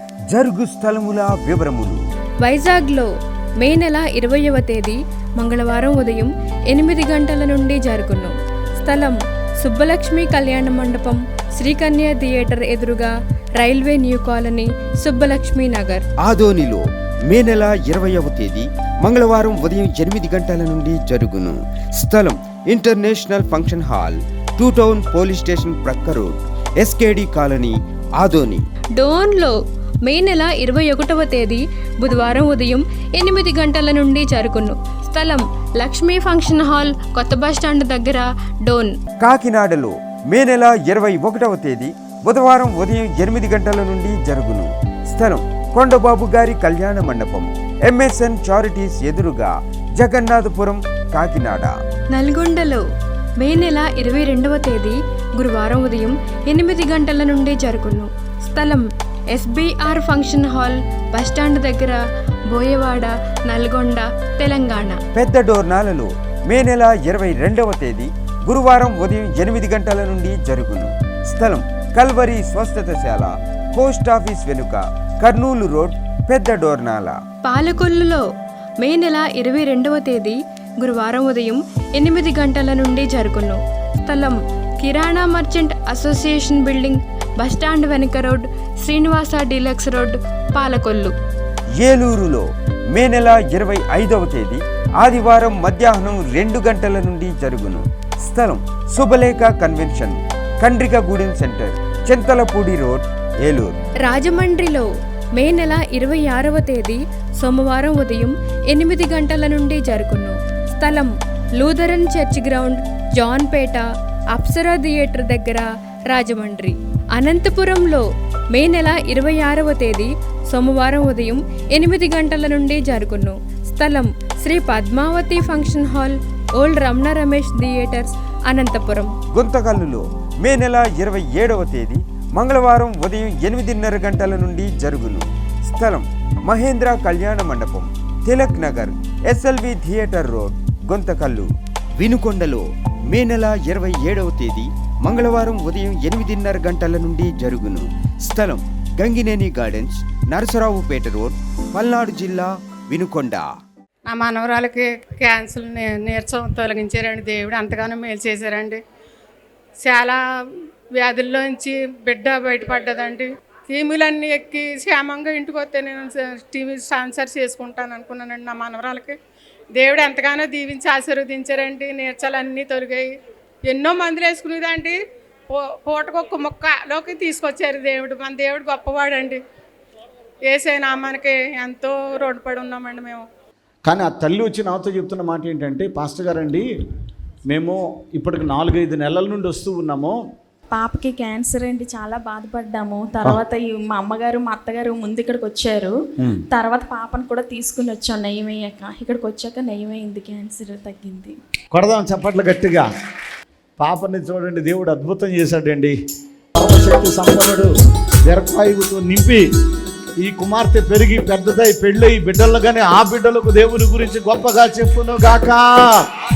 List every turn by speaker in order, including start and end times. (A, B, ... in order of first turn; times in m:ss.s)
0:00.3-0:02.0 A
0:02.4-0:03.1 B
0:03.6-0:16.0 B
0:16.2-0:28.6 A
0:29.0-0:39.0 B
0:39.2-0:51.7 A
0:52.1-0:52.8 B
0:53.4-1:02.0 B
1:02.5-1:05.0 B
1:05.1-1:17.2 A
1:17.4-1:18.2 B
1:18.8-1:31.1 B
1:31.8-1:43.8 A
1:44.0-2:09.1 B
2:09.3-2:33.5 A
2:34.1-2:38.8 C
2:39.8-2:40.2 C
2:41.0-2:49.2 C
2:49.8-2:53.1 C
2:53.7-2:55.0 C
2:55.5-2:59.4 C
3:00.5-3:03.2 C
3:03.8-3:06.6 D
3:07.5-3:10.2 D
3:10.7-3:15.9 E
3:16.5-3:21.4 E
3:21.7-3:22.9 D
3:23.8-3:26.0 D
3:26.6-3:27.7 D
3:28.3-3:29.4 D
3:30.2-3:35.9 D